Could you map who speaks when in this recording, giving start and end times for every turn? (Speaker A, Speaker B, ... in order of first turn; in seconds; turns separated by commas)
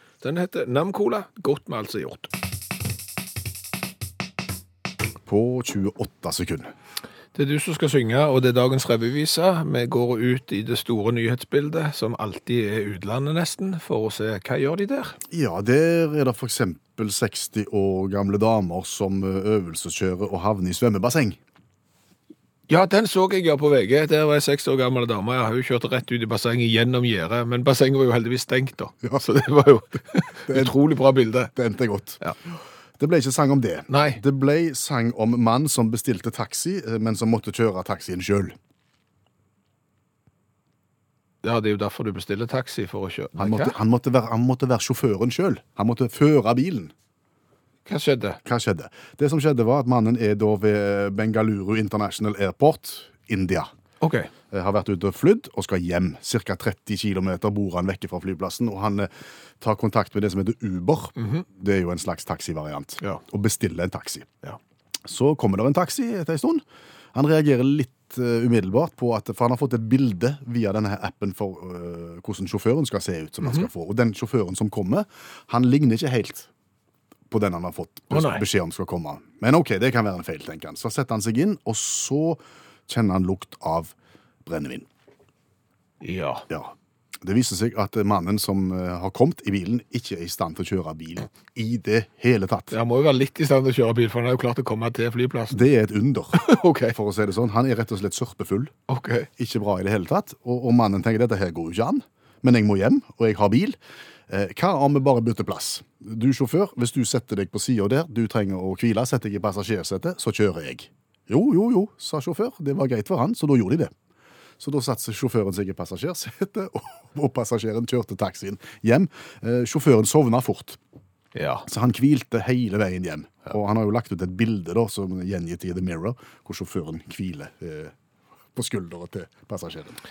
Speaker A: 0.2-2.3, Speaker B: 5.2-6.7, Speaker A: 7.3-15.2, Speaker B: 15.3-21.4, Speaker A: 22.7-31.5, Speaker B: 30.4-30.8, Speaker B: 31.5-32.2, Speaker B: 33.0-38.5, Speaker A: 33.9-34.2, Speaker A: 41.4-43.8, Speaker B: 43.4-46.9, Speaker A: 47.9-48.4, Speaker B: 48.4-53.7, Speaker A: 54.0-54.3, Speaker B: 54.5-59.1, Speaker B: 59.6-64.3, Speaker A: 61.1-61.5, Speaker B: 65.0-76.5, Speaker A: 73.4-73.7, Speaker B: 77.3-83.9, Speaker A: 78.1-78.4, Speaker B: 84.4-84.9, Speaker A: 86.0-86.5, Speaker B: 86.5-92.7, Speaker A: 92.7-95.6, Speaker B: 95.5-98.7, Speaker A: 96.3-97.0, Speaker A: 98.9-99.3, Speaker B: 99.4-103.8, Speaker B: 104.3-113.9, Speaker B: 114.6-120.8, Speaker A: 121.3-121.7, Speaker B: 121.7-127.9, Speaker B: 128.5-130.0